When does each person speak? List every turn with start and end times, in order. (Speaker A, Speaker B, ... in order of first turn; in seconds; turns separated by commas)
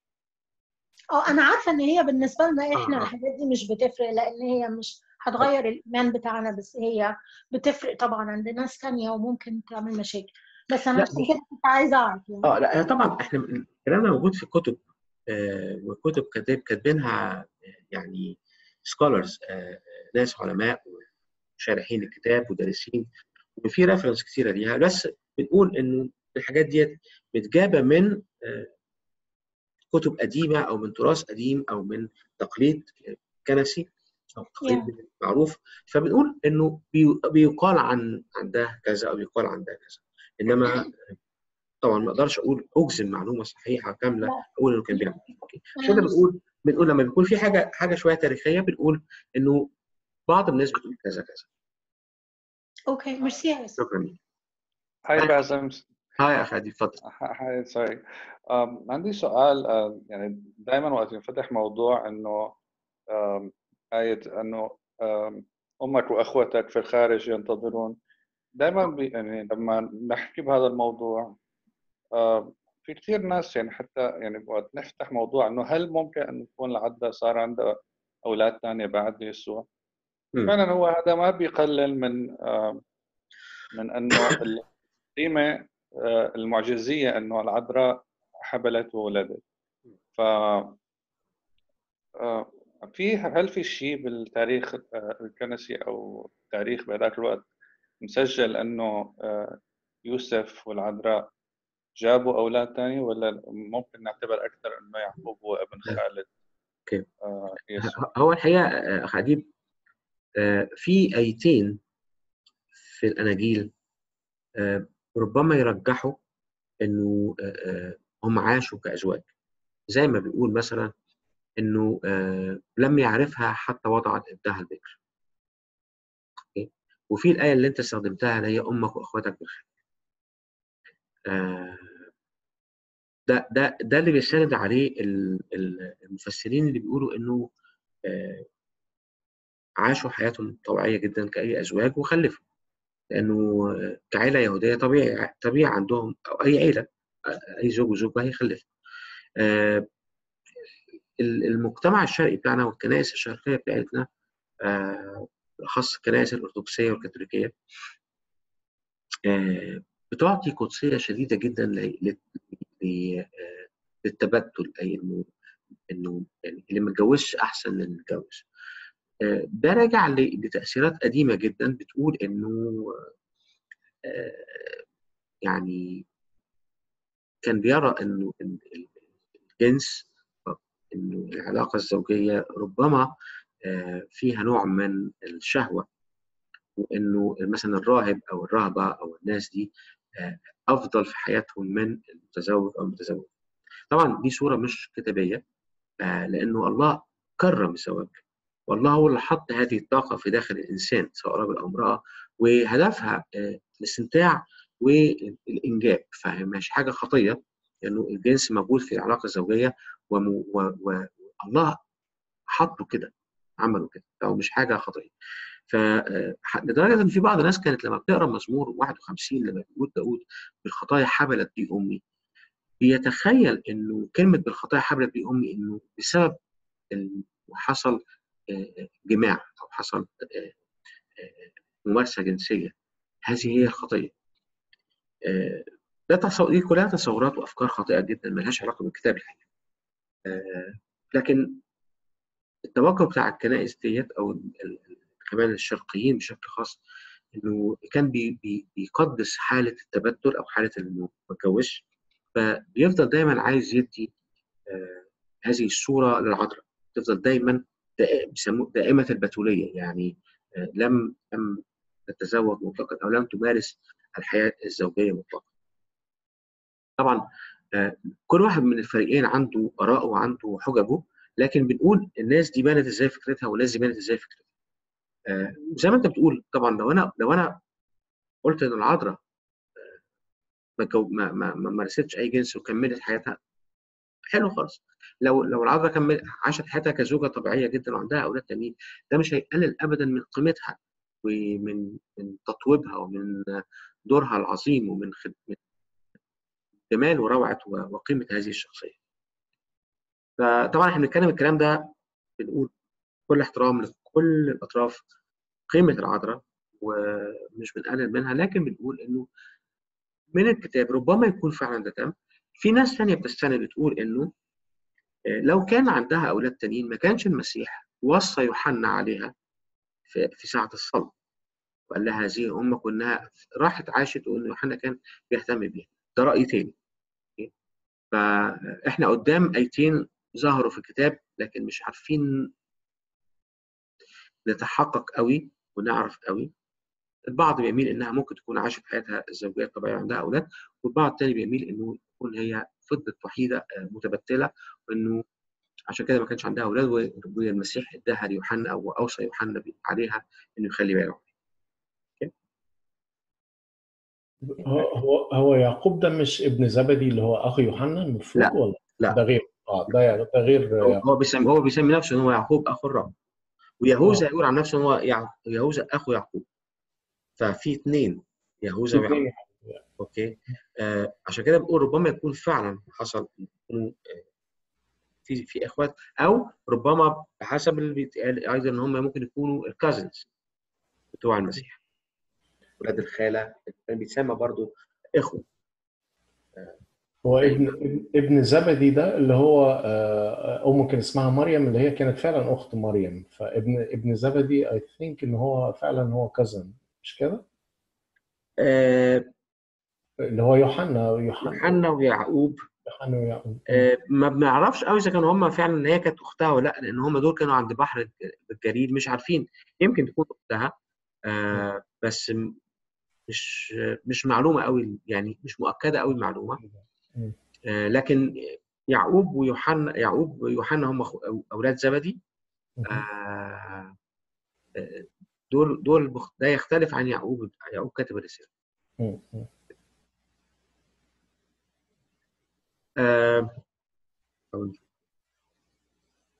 Speaker A: 1.1-12.5, Speaker B: 2.8-3.1, Speaker B: 10.9-11.3, Speaker B: 12.4-21.1, Speaker B: 21.6-28.7, Speaker B: 29.9-41.1, Speaker A: 34.6-34.9, Speaker B: 41.8-49.7, Speaker A: 45.8-46.1, Speaker B: 50.3-51.5, Speaker A: 52.9-53.8, Speaker B: 53.8-54.2, Speaker C: 55.0-55.8, Speaker B: 55.1-55.4, Speaker B: 56.2-57.0, Speaker C: 57.0-62.5, Speaker C: 63.1-67.9, Speaker C: 68.6-71.3, Speaker C: 72.2-77.7, Speaker C: 78.2-79.7, Speaker C: 80.5-82.8, Speaker C: 83.7-89.4, Speaker C: 90.1-90.7, Speaker C: 92.2-97.5, Speaker C: 98.0-101.3, Speaker C: 102.0-106.3, Speaker C: 107.2-108.0, Speaker B: 107.8-109.5, Speaker B: 110.4-111.8, Speaker B: 112.9-113.7, Speaker B: 114.6-116.2, Speaker B: 116.8-119.3, Speaker B: 119.9-120.9, Speaker B: 121.6-125.0, Speaker B: 126.5-129.7, Speaker B: 131.3-132.1, Speaker B: 133.3-137.5, Speaker B: 138.1-138.4, Speaker B: 139.8-142.4, Speaker B: 143.1-148.7, Speaker B: 149.4-149.9, Speaker B: 151.2-154.1, Speaker B: 154.6-157.5, Speaker B: 159.3-165.3, Speaker B: 165.9-168.4, Speaker B: 169.2-173.0, Speaker B: 174.1-174.8, Speaker B: 175.4-176.0, Speaker B: 177.4-178.9, Speaker B: 179.6-183.1, Speaker B: 183.6-185.8, Speaker B: 186.8-193.3, Speaker B: 193.9-195.4, Speaker B: 196.0-211.8, Speaker B: 212.5-215.1, Speaker B: 215.7-222.0, Speaker B: 222.8-226.4, Speaker B: 226.9-230.5, Speaker B: 231.2-232.7, Speaker B: 233.3-234.1, Speaker B: 235.2-239.4, Speaker B: 240.2-241.6, Speaker B: 242.7-246.8, Speaker B: 247.3-251.8, Speaker B: 252.3-254.1, Speaker B: 254.7-265.5, Speaker B: 267.7-274.4, Speaker B: 275.3-277.6, Speaker B: 278.4-279.2, Speaker B: 280.8-283.4, Speaker B: 284.3-295.6, Speaker B: 296.9-299.0, Speaker B: 300.4-302.7, Speaker B: 303.3-305.0, Speaker B: 305.7-309.2, Speaker B: 310.3-314.3, Speaker B: 315.4-319.3, Speaker B: 320.1-321.1, Speaker B: 321.9-326.7, Speaker B: 328.1-332.5, Speaker B: 334.4-336.5, Speaker B: 337.3-345.2, Speaker B: 345.9-351.3, Speaker D: 354.5-361.0, Speaker B: 358.4-359.2, Speaker B: 360.8-363.1, Speaker B: 363.8-366.4, Speaker B: 367.4-369.3, Speaker D: 368.9-369.8, Speaker B: 370.0-374.2, Speaker B: 375.2-380.3, Speaker B: 381.1-381.8, Speaker B: 382.8-385.4, Speaker D: 387.2-397.4, Speaker B: 387.4-387.7, Speaker B: 398.6-399.3, Speaker D: 400.2-401.8, Speaker B: 401.4-402.7, Speaker D: 402.9-403.9, Speaker B: 403.7-410.7, Speaker B: 411.3-412.5, Speaker B: 413.3-416.6, Speaker D: 416.6-417.4, Speaker B: 417.7-422.2, Speaker D: 422.8-423.0, Speaker B: 422.8-423.9, Speaker B: 424.8-428.5, Speaker D: 429.0-429.5, Speaker B: 433.0-433.6, Speaker B: 434.5-434.8